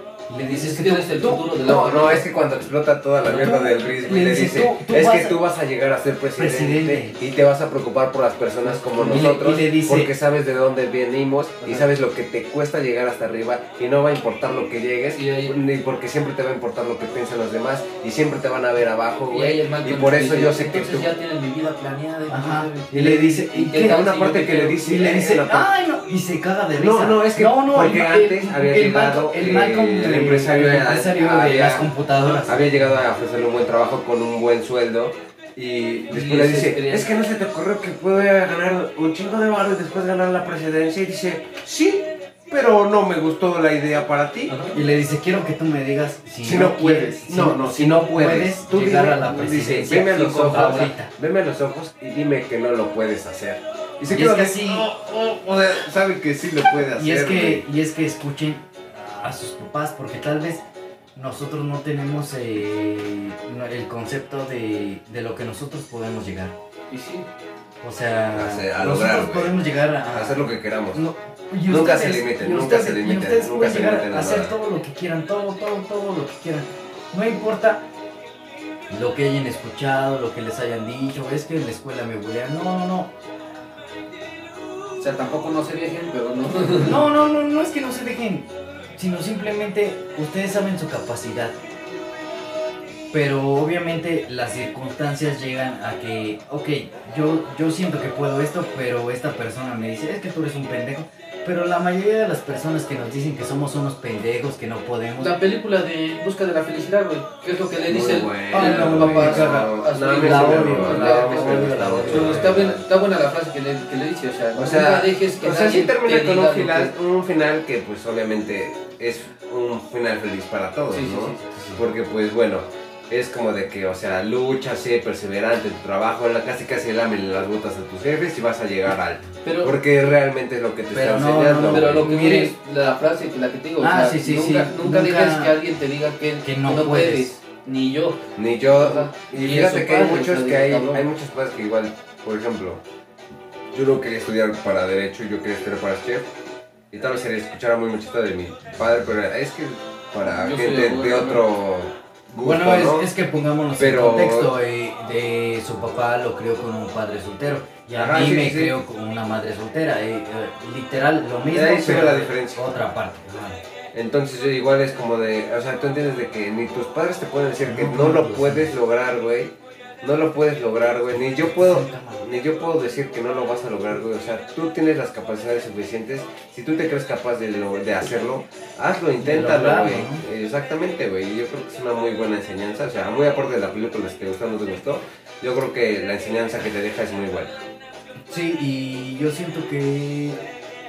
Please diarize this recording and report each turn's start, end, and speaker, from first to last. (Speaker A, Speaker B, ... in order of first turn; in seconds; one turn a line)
Speaker A: 0.3-1.5
Speaker B: 0.4-2.2
Speaker C: 1.6-21.1
Speaker A: 3.2-5.4
Speaker B: 3.3-3.5
Speaker A: 6.4-7.2
Speaker A: 8.7-10.1
Speaker B: 11.6-11.9
Speaker B: 15.1-15.5
Speaker B: 19.3-24.8
Speaker A: 22.3-24.0
Speaker C: 23.8-25.7
Speaker A: 24.8-33.0
Speaker C: 26.8-31.8
Speaker B: 31.3-31.9
Speaker C: 32.4-44.6
Speaker B: 36.1-37.1
Speaker B: 44.5-44.8
Speaker A: 44.7-51.1
Speaker C: 46.4-57.6
Speaker B: 50.4-50.9
Speaker A: 54.1-54.9
Speaker A: 57.0-60.6
Speaker A: 61.2-66.6
Speaker B: 66.9-67.3
Speaker A: 67.8-77.8
Speaker C: 68.3-69.6
Speaker C: 70.1-71.0
Speaker C: 71.7-74.6
Speaker A: 78.9-83.1
Speaker B: 85.0-87.1
Speaker A: 86.8-91.6
Speaker A: 93.1-105.3
Speaker B: 105.2-116.9
Speaker C: 107.9-112.8
Speaker A: 108.5-112.8
Speaker C: 114.6-132.1
Speaker B: 120.9-121.5
Speaker A: 121.5-121.8
Speaker B: 129.4-129.8
Speaker A: 130.9-132.5
Speaker B: 131.6-141.0
Speaker A: 133.8-135.6
Speaker A: 136.4-137.3
Speaker C: 138.4-142.8
Speaker C: 143.7-146.3
Speaker C: 146.9-153.1
Speaker B: 150.2-151.4
Speaker A: 152.4-163.6
Speaker C: 153.8-154.5
Speaker C: 157.9-158.8
Speaker C: 161.4-162.7
Speaker C: 163.9-187.6
Speaker A: 167.6-168.7
Speaker A: 171.1-172.2
Speaker A: 179.2-180.2
Speaker A: 188.3-190.5